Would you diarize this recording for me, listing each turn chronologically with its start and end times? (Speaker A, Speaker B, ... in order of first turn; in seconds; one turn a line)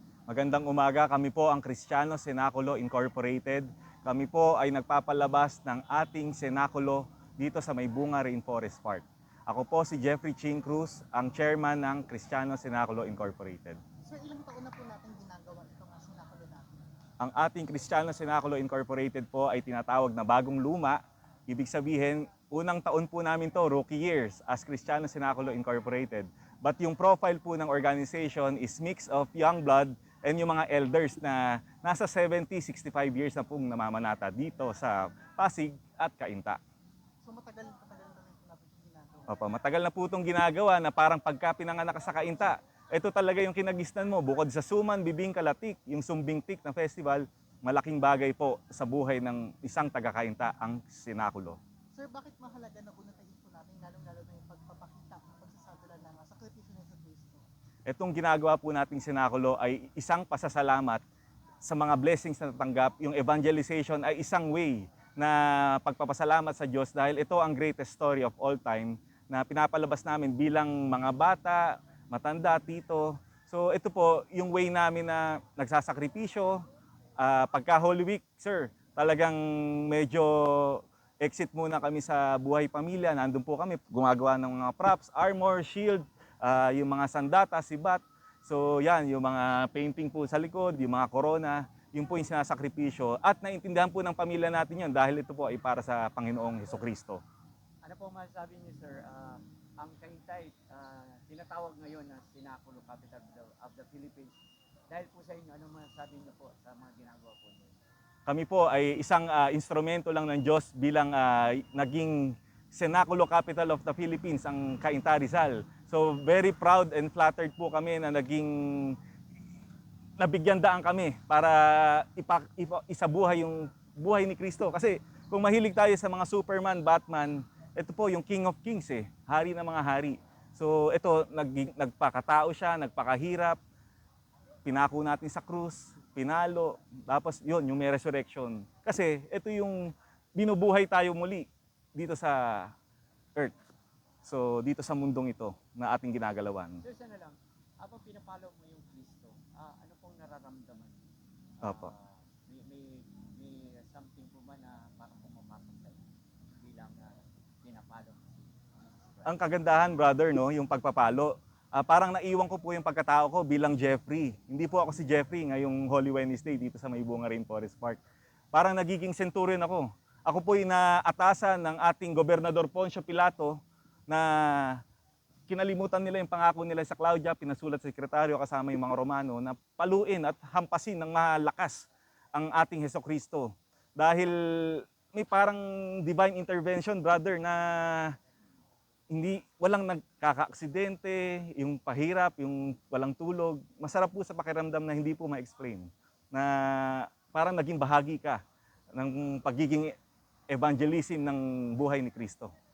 Speaker A: 0.3-13.8
Speaker B: 14.0-16.8
Speaker A: 17.2-36.6
Speaker B: 37.2-39.4
Speaker A: 39.3-51.6
Speaker B: 51.9-57.4
Speaker A: 57.9-61.0
Speaker A: 61.6-76.6
Speaker A: 77.2-97.2
Speaker C: 97.8-104.4
Speaker C: 104.9-107.7
Speaker A: 108.3-119.0
Speaker A: 120.2-133.6
Speaker A: 134.6-142.7
Speaker A: 144.2-146.8
Speaker C: 146.8-151.0
Speaker C: 151.6-156.0
Speaker A: 151.6-151.9
Speaker C: 156.6-159.4
Speaker A: 159.2-168.0
Speaker A: 168.5-174.8
Speaker A: 175.5-188.2
Speaker A: 189.1-198.4
Speaker A: 198.9-199.9
Speaker A: 200.5-202.5